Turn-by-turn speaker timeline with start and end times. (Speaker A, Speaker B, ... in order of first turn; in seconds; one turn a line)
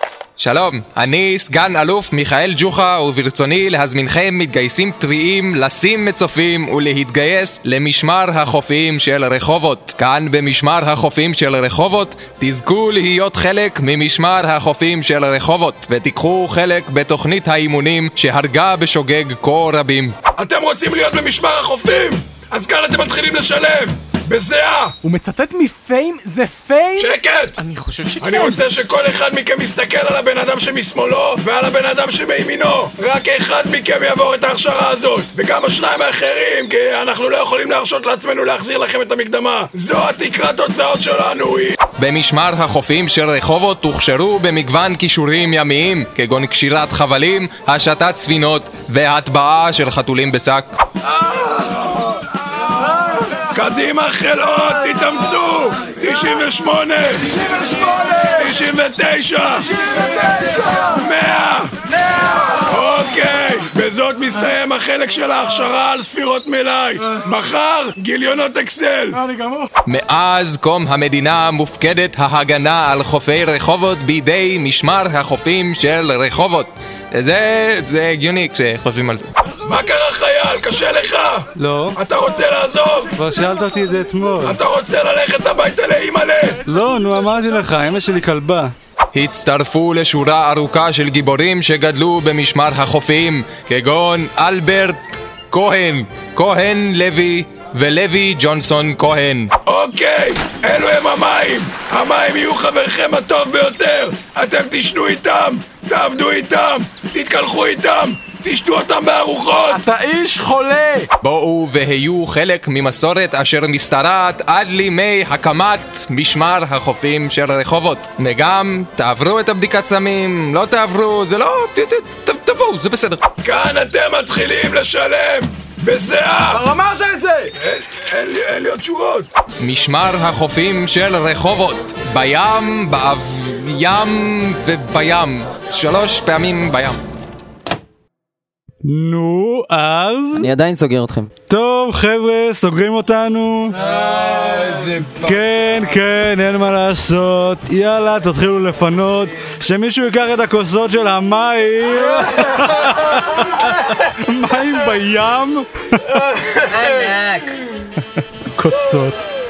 Speaker A: 0.4-20.2
Speaker B: 20.4-25.0
Speaker C: 25.0-28.6
Speaker B: 27.0-27.6
Speaker B: 28.2-41.8
Speaker A: 42.0-50.8
Speaker B: 53.5-69.3
Speaker A: 69.8-79.3
Speaker B: 79.7-81.5
Speaker D: 81.6-82.0
Speaker B: 82.0-83.1
Speaker D: 83.2-84.6
Speaker B: 84.5-86.6
Speaker D: 86.7-88.7
Speaker A: 89.1-99.5
Speaker B: 99.7-109.8
Speaker C: 109.7-111.1
Speaker A: 111.2-123.2
Speaker B: 123.4-126.7
Speaker C: 126.7-127.5
Speaker B: 127.5-129.3
Speaker A: 129.6-137.0
Speaker D: 138.8-140.5
Speaker E: 140.4-141.3
Speaker D: 141.5-143.8
Speaker A: 143.8-145.2
Speaker D: 145.1-156.3
Speaker E: 156.6-157.6
Speaker D: 158.4-159.3